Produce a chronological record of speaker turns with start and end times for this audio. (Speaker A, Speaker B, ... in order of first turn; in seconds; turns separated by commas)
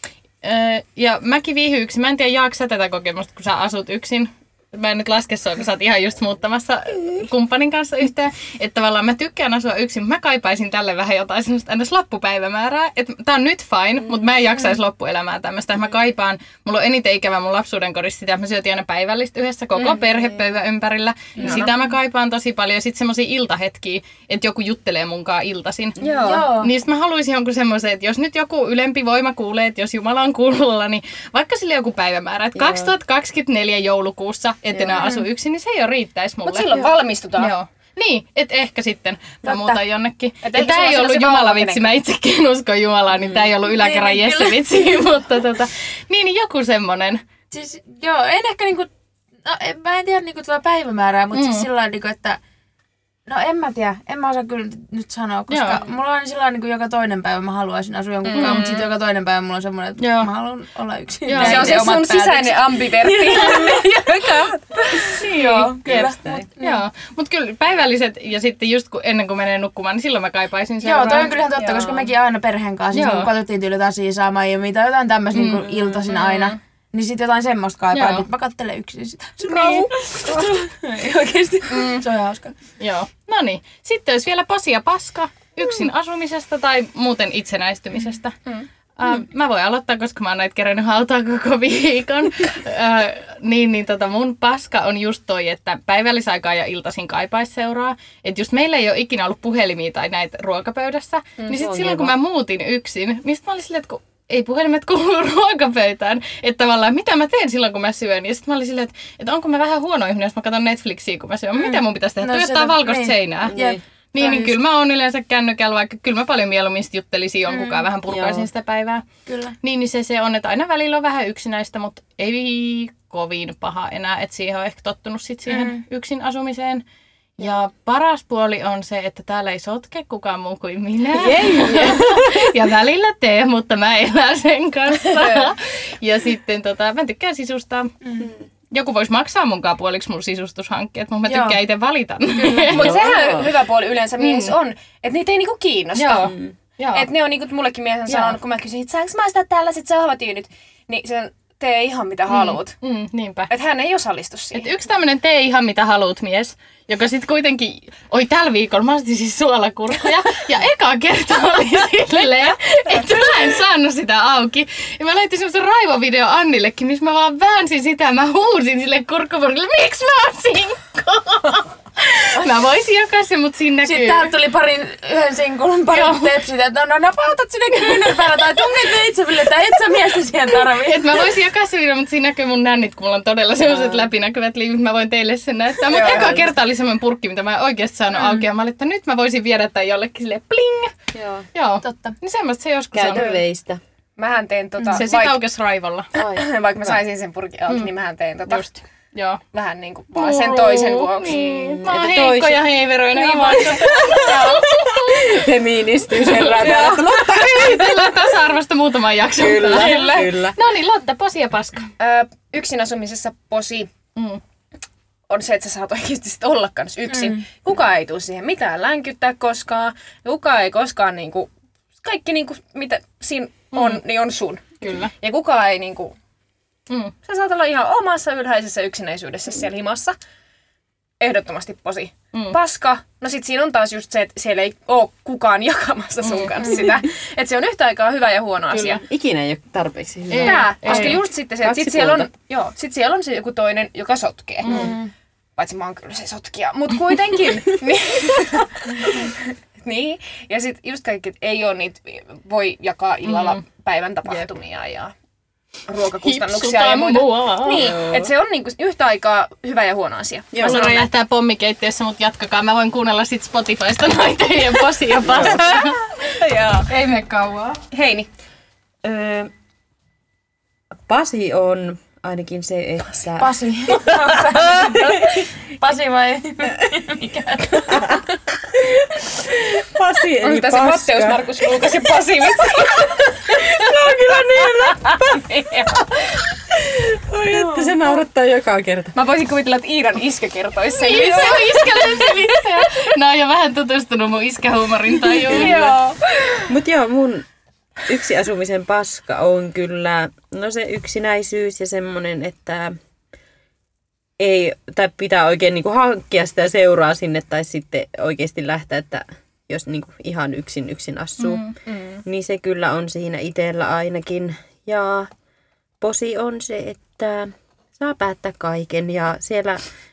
Speaker A: 0.4-36.9, Speaker B: 21.4-21.7, Speaker B: 26.0-26.5, Speaker C: 26.2-26.7, Speaker D: 32.5-32.9, Speaker C: 34.8-35.3, Speaker B: 36.5-37.5, Speaker A: 37.4-47.2, Speaker C: 39.5-39.8, Speaker B: 40.4-41.9, Speaker D: 43.1-43.5, Speaker C: 43.7-45.1, Speaker C: 47.5-48.9, Speaker C: 49.4-52.4, Speaker A: 51.3-51.7, Speaker C: 53.3-66.8, Speaker A: 55.5-55.8, Speaker B: 58.2-58.9, Speaker A: 58.4-58.8, Speaker A: 60.0-60.3, Speaker A: 61.3-61.9, Speaker B: 61.4-64.6, Speaker A: 65.1-65.8, Speaker D: 65.8-66.5, Speaker A: 66.6-71.8, Speaker C: 70.8-82.5, Speaker A: 72.9-73.3, Speaker A: 75.3-76.6, Speaker A: 77.9-78.3, Speaker A: 79.5-80.5, Speaker B: 81.7-82.1, Speaker A: 82.8-88.4, Speaker A: 89.0-113.6, Speaker B: 101.4-101.8, Speaker D: 101.5-102.2, Speaker C: 111.6-114.6, Speaker D: 113.5-113.8, Speaker A: 114.1-119.0, Speaker C: 117.5-117.8, Speaker D: 118.1-118.5, Speaker C: 119.3-119.5, Speaker A: 119.6-126.8, Speaker C: 125.5-125.8, Speaker A: 127.4-137.9, Speaker D: 131.1-132.5, Speaker B: 135.1-135.5, Speaker C: 138.0-138.3, Speaker A: 138.7-143.0, Speaker C: 141.3-141.6, Speaker C: 142.4-142.8, Speaker D: 142.7-143.5, Speaker B: 142.7-146.3, Speaker A: 144.2-144.6, Speaker A: 145.9-147.1, Speaker B: 146.9-152.8, Speaker A: 148.1-148.4, Speaker A: 152.3-153.5, Speaker B: 153.5-154.7, Speaker A: 154.5-174.3, Speaker C: 173.8-181.3, Speaker A: 175.9-176.4, Speaker A: 177.8-178.2, Speaker A: 180.7-190.9, Speaker D: 183.7-184.1, Speaker B: 185.9-186.4, Speaker D: 185.9-186.5, Speaker C: 188.2-188.4, Speaker D: 191.1-191.5, Speaker A: 191.5-193.4, Speaker C: 191.8-192.1, Speaker D: 192.9-193.8, Speaker B: 194.2-195.4, Speaker A: 194.9-196.1, Speaker D: 196.2-196.5, Speaker B: 196.3-198.7, Speaker A: 198.5-199.4, Speaker B: 199.5-201.4, Speaker A: 200.2-205.2, Speaker D: 201.3-202.7, Speaker B: 203.2-204.7, Speaker C: 203.8-204.4, Speaker D: 203.8-208.1, Speaker C: 206.4-207.0, Speaker B: 206.4-207.0, Speaker A: 206.9-211.9, Speaker D: 209.4-210.6, Speaker B: 209.6-210.2, Speaker B: 212.0-213.9, Speaker A: 214.2-214.4, Speaker B: 215.3-226.2, Speaker C: 217.1-217.4, Speaker A: 223.7-224.0, Speaker A: 224.8-225.1, Speaker A: 226.9-227.1, Speaker B: 227.2-230.2, Speaker B: 231.2-239.0, Speaker A: 236.2-236.8, Speaker C: 236.6-236.9, Speaker D: 238.8-242.3, Speaker A: 240.3-241.2, Speaker B: 240.4-244.9, Speaker A: 244.6-245.0, Speaker C: 244.7-245.1, Speaker B: 245.6-255.1, Speaker A: 253.3-253.6, Speaker B: 255.9-261.1, Speaker A: 256.2-257.8, Speaker D: 257.8-258.3, Speaker D: 260.5-261.0, Speaker A: 260.6-267.8, Speaker D: 265.2-266.0, Speaker C: 266.4-266.8, Speaker B: 267.9-268.3, Speaker D: 269.0-269.5, Speaker D: 271.1-275.4, Speaker C: 273.4-278.2, Speaker D: 277.8-281.9, Speaker B: 280.4-283.6, Speaker D: 282.6-285.5, Speaker B: 285.1-286.1, Speaker D: 286.7-289.1, Speaker C: 287.5-287.9, Speaker B: 289.1-292.0, Speaker A: 291.0-295.9, Speaker C: 291.2-292.4, Speaker C: 295.3-296.7, Speaker D: 295.5-296.0, Speaker D: 296.7-297.5, Speaker D: 298.1-302.9, Speaker D: 304.4-311.7, Speaker A: 311.4-311.8, Speaker B: 311.9-312.2, Speaker D: 312.2-315.3, Speaker D: 316.0-319.8